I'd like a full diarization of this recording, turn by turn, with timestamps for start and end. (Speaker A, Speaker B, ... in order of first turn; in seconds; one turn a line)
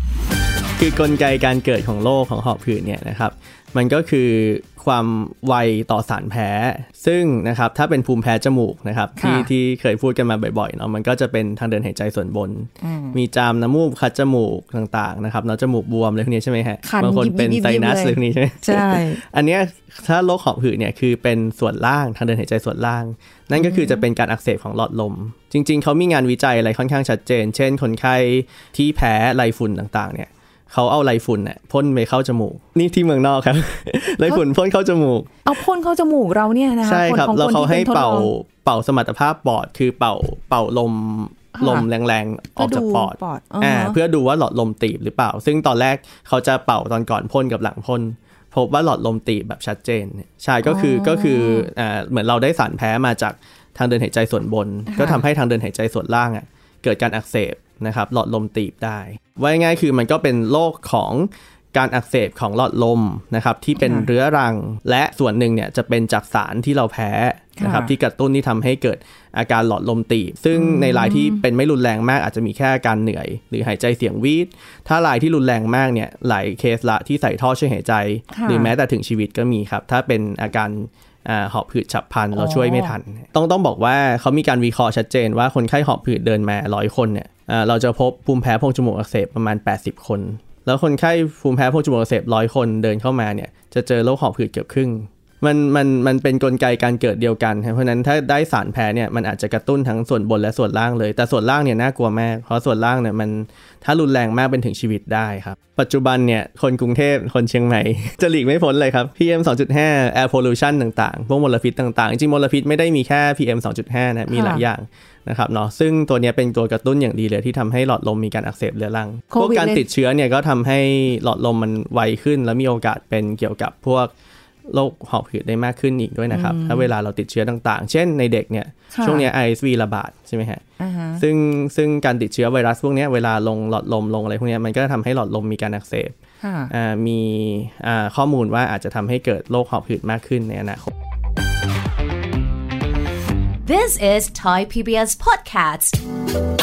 Speaker A: 0.8-35.4
Speaker B: 9.2-9.5
Speaker B: 12.8-13.2
Speaker B: 16.8-19.2
Speaker B: 23.6-24.0
Speaker B: 35.4-38.3
Speaker A: 36.8-124.1
Speaker B: 41.5-41.9
Speaker B: 42.6-44.0
Speaker B: 50.6-51.7
Speaker B: 54.9-55.2
Speaker B: 63.8-64.1
Speaker B: 67.6-67.9
Speaker B: 70.5-71.4
Speaker B: 78.3-78.7
Speaker B: 82.3-82.9
Speaker B: 114.3-114.6
Speaker B: 119.3-119.8
Speaker A: 124.7-130.6
Speaker B: 126.3-126.9
Speaker B: 128.9-129.3
Speaker B: 130.8-131.2
Speaker A: 131.2-136.2
Speaker B: 136.4-136.7
Speaker A: 136.7-140.9
Speaker C: 143.6-146.0